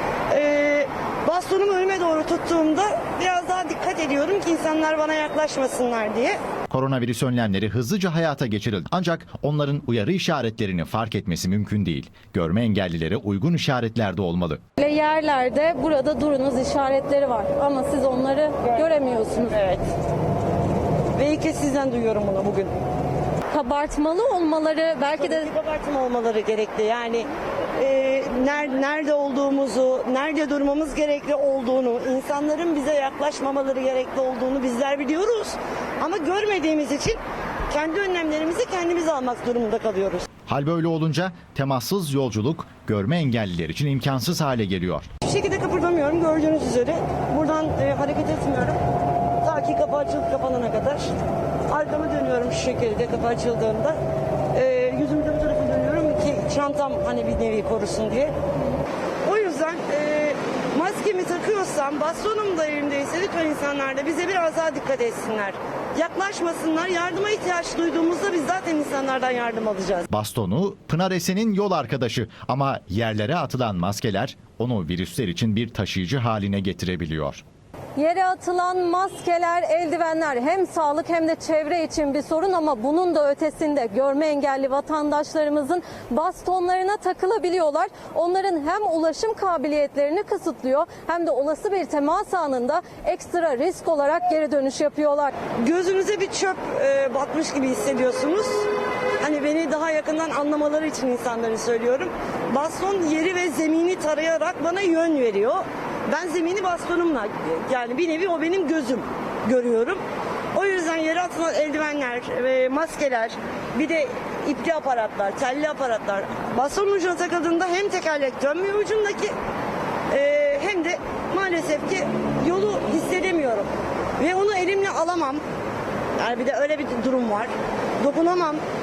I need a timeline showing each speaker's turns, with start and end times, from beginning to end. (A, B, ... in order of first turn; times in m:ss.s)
0:00.3-0:06.4 A
0:06.7-0:14.6 B
0:14.8-0:19.5 C
0:18.6-0:19.8 A
0:21.1-0:22.7 A
0:23.5-0:25.5 C
0:25.2-0:40.3 A
0:40.5-0:45.1 B
0:45.2-0:48.8 A
0:49.4-0:51.1 A
0:51.7-0:54.0 A
0:54.5-0:58.3 A
0:59.2-1:10.0 A
1:10.1-1:17.4 B
1:18.0-1:35.3 C
1:35.6-1:38.6 A
1:39.2-1:50.0 A
1:50.5-1:59.3 A
2:00.1-2:05.4 A
2:06.2-2:08.6 A